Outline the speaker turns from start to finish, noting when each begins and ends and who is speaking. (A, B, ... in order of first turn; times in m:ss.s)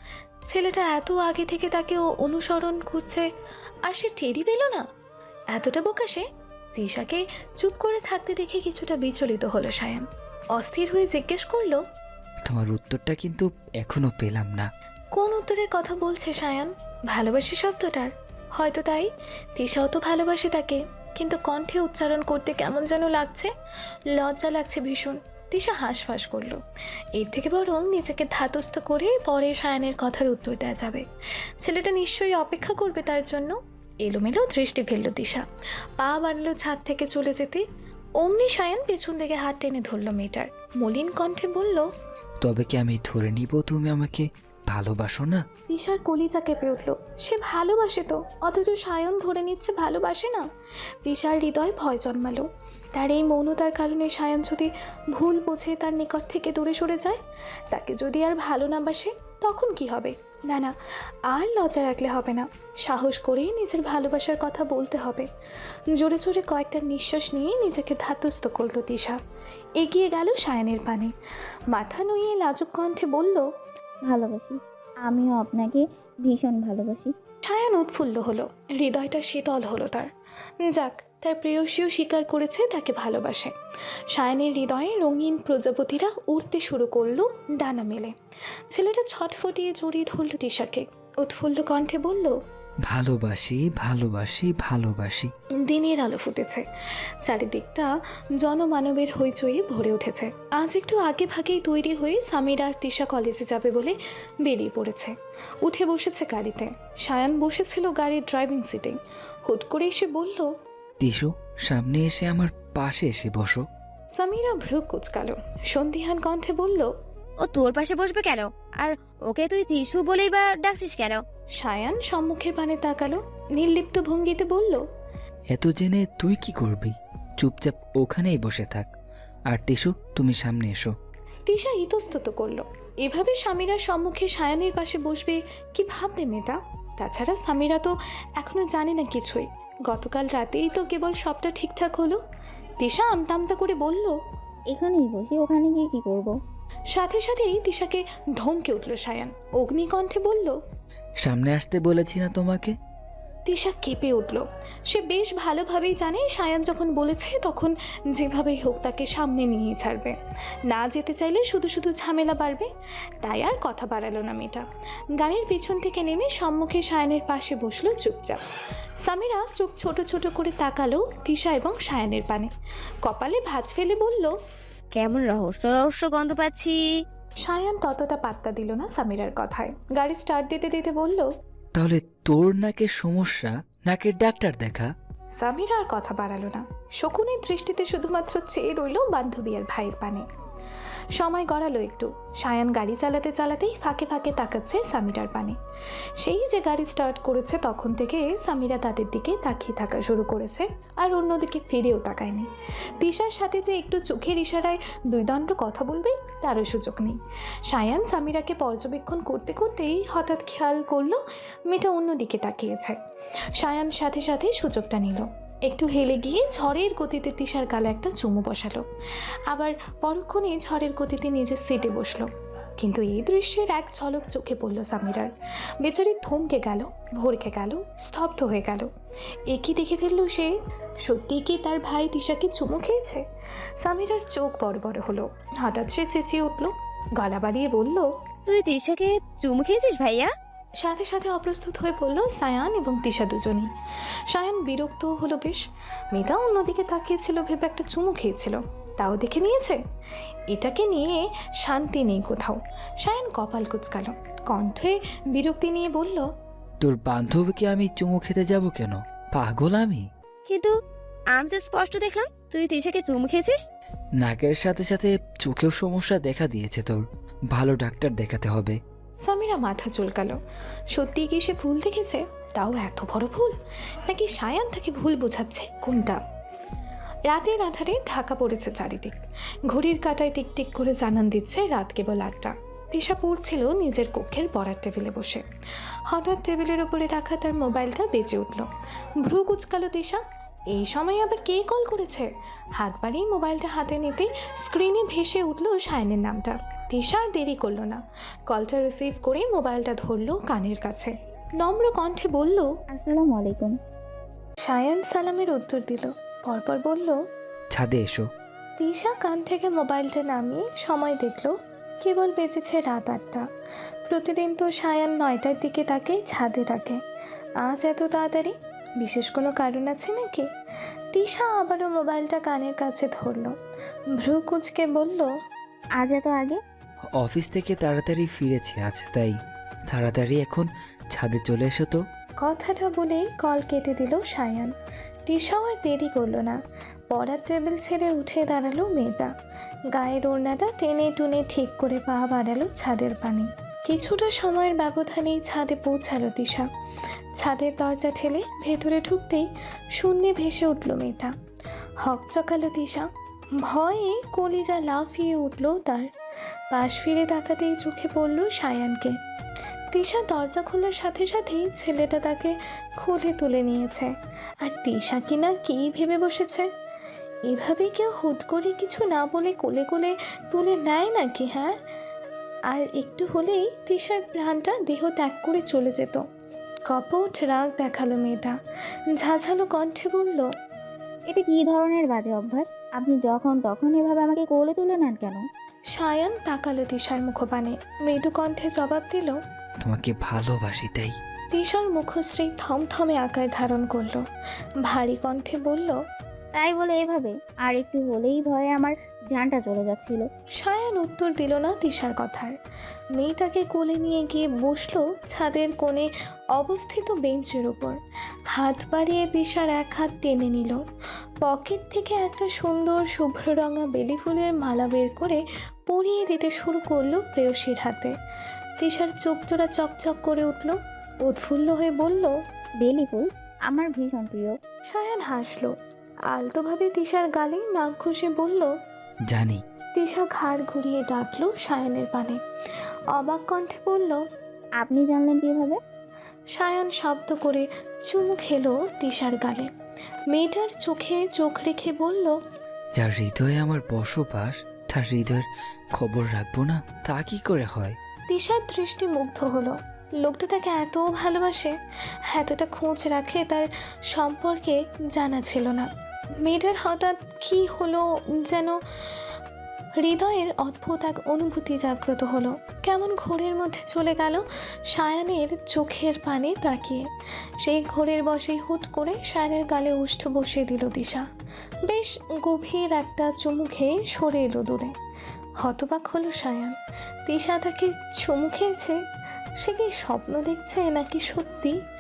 0:00.5-0:03.3 A
0:03.8-0:04.9 A
0:05.5-0:11.8 A
0:12.4-0:14.7 B
0:15.1-0:23.5 A
0:24.1-0:26.6 A
0:27.2-0:31.0 A
0:31.6-0:35.4 A
0:36.0-0:37.6 A
0:38.2-0:41.9 A
0:42.4-0:45.4 B
0:45.7-0:50.5 A
0:51.0-1:00.7 A
1:01.3-1:05.3 A
1:05.9-1:09.2 A
1:09.8-1:11.1 A
1:11.7-1:13.5 A
1:14.0-1:17.1 C
1:17.4-1:20.1 A
1:20.6-1:23.5 A
1:24.1-1:28.2 A
1:28.7-1:32.4 A
1:32.9-1:35.3 B
1:35.6-1:36.7 A
1:37.2-1:50.5 A
1:51.0-1:53.6 B
1:54.2-1:56.9 A
1:57.4-2:01.2 D
2:01.6-2:04.9 A
2:05.5-2:08.9 B
2:09.5-2:10.9 B
2:11.5-2:22.2 A
2:22.8-2:24.2 A
2:24.7-2:26.4 C
2:26.9-2:30.6 A
2:31.2-2:32.7 B
2:33.5-2:42.7 A
2:43.2-2:44.6 A
2:45.2-2:48.4 A
2:49.0-2:52.5 A
2:53.0-2:54.3 A
2:55.0-2:57.0 D
2:57.4-3:01.3 A
3:01.8-3:04.9 B
3:05.4-3:10.2 A
3:11.2-3:15.6 A
3:16.2-3:33.0 A
3:33.6-3:38.9 A
3:39.5-3:48.9 A
3:49.5-3:53.2 A
3:53.8-3:58.1 A
3:58.5-4:00.3 D
4:00.8-4:03.7 A
4:04.3-4:09.8 A
4:10.5-4:16.3 A
4:16.8-4:20.1 B
4:20.5-4:20.7 D
4:21.3-4:23.6 D
4:24.2-4:28.8 B
4:29.2-4:30.4 A
4:30.9-4:33.6 A
4:34.1-4:36.2 A
4:37.3-4:39.2 A
4:39.7-4:45.4 A
4:46.1-4:48.7 A
4:49.2-5:02.8 A
5:02.9-5:03.8 C
5:04.6-5:07.2 A
5:07.7-5:08.3 B
5:08.8-5:13.5 A
5:14.1-5:17.0 A
5:17.6-5:20.5 A
5:21.1-5:23.6 A
5:24.2-5:25.3 A
5:26.0-5:26.6 C
5:27.2-5:32.0 B
5:32.4-5:34.7 A
5:35.3-5:36.6 A
5:37.1-5:39.3 A
5:39.9-5:46.7 A
5:47.4-5:51.4 A
5:52.0-5:53.1 A
5:53.6-5:56.1 A
5:56.7-5:59.2 A
5:59.9-6:06.7 A
6:07.5-6:11.8 A
6:12.7-6:16.2 A
6:16.9-6:18.6 A
6:19.2-6:20.5 A
6:21.3-6:25.4 C
6:25.9-6:29.4 A
6:29.8-6:31.2 B
6:31.5-6:34.2 A
6:34.8-6:36.0 A
6:36.5-6:40.3 C
6:40.6-6:42.6 A
6:43.1-6:48.0 A
6:48.5-6:50.8 A
6:51.4-6:58.1 A
6:58.8-7:02.4 A
7:02.8-7:04.6 C
7:04.9-7:05.8 A
7:06.3-7:08.8 A
7:09.3-7:09.6 B
7:10.0-7:12.4 A
7:13.1-7:14.3 A
7:14.8-7:15.8 C
7:16.5-7:19.7 A
7:20.3-7:22.4 A
7:23.0-7:28.0 B
7:28.3-7:35.9 A
7:36.4-7:38.8 A
7:40.0-7:47.1 A
7:47.6-7:51.3 A
7:51.9-7:54.9 A
7:55.6-7:59.0 A
7:59.6-8:01.8 A